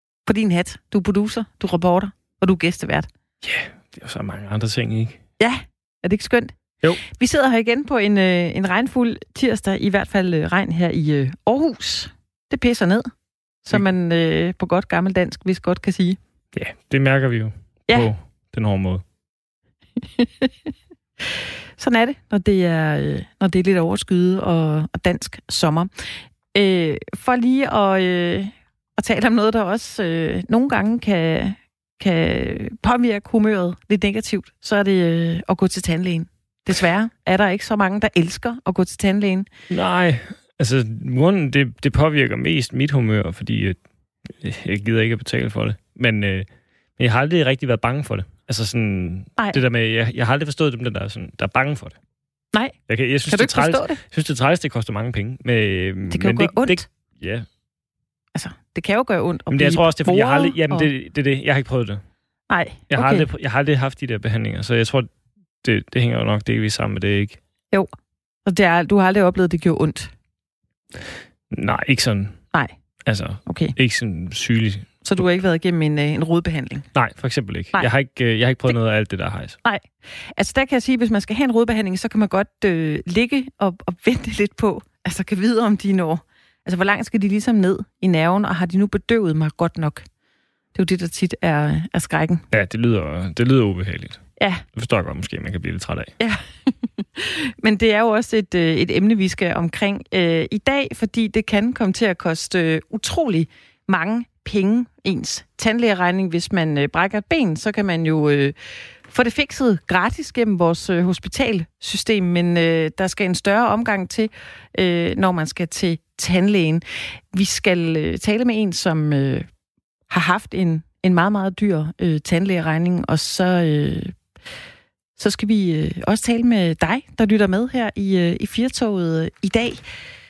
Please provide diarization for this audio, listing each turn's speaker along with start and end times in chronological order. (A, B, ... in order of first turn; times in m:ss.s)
0:00.3-0:03.1 A
0:03.4-0:05.2 B
0:05.4-0:13.1 A
0:13.6-0:16.2 A
0:16.5-0:19.0 B
0:20.2-0:20.5 A
0:21.8-0:39.5 A
0:39.7-0:43.8 B
0:44.4-0:52.0 B
0:52.9-0:57.5 B
0:53.3-0:54.0 A
0:56.1-0:56.8 A
0:58.4-1:00.9 A
0:59.5-1:02.0 B
1:02.5-1:03.3 A
1:02.9-1:05.1 B
1:05.6-1:07.4 B
1:08.5-1:10.1 A
1:11.5-1:12.4 B
1:13.1-1:14.9 B
1:13.5-1:13.7 A
1:15.0-1:16.9 A
1:16.9-1:19.6 B
1:19.6-1:30.1 A
1:30.7-1:32.4 A
1:32.5-1:36.1 B
1:34.4-1:34.6 A
1:36.2-1:48.6 A
1:49.1-1:59.5 A
2:00.1-2:04.2 A
2:05.2-2:09.8 A